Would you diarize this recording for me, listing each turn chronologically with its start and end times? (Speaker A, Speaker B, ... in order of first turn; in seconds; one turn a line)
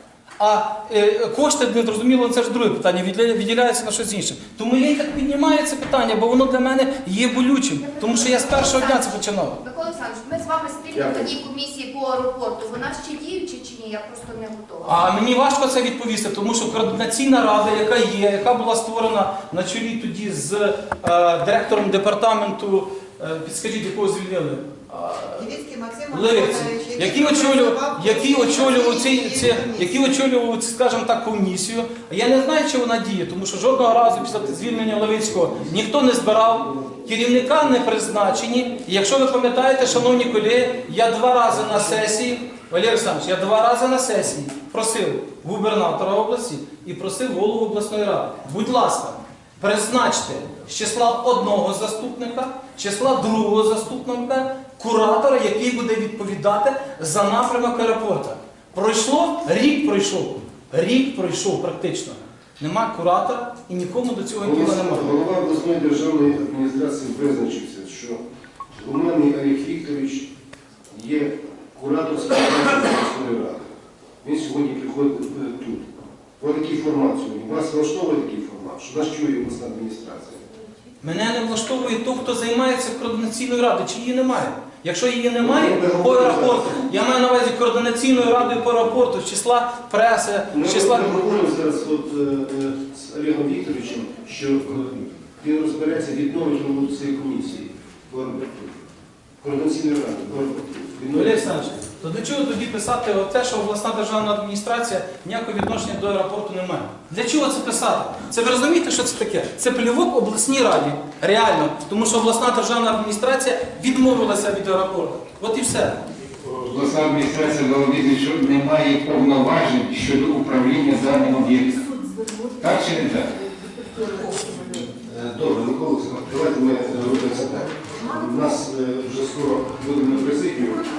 Speaker A: 0.4-9.6
Speaker B: 7.8-15.0
Speaker C: 10.9-11.4
Speaker A: 14.8-25.4
Speaker D: 25.3-30.0
Speaker A: 26.1-65.2
Speaker C: 64.4-68.2
Speaker C: 68.8-70.3
Speaker C: 70.9-73.7
Speaker C: 74.2-75.8
Speaker C: 76.4-80.4
Speaker A: 81.0-91.2
Speaker C: 85.4-86.7
Speaker C: 90.5-98.8
Speaker C: 99.4-101.7
Speaker A: 101.1-116.0
Speaker E: 116.5-121.8
Speaker E: 122.6-123.3
Speaker C: 125.0-130.8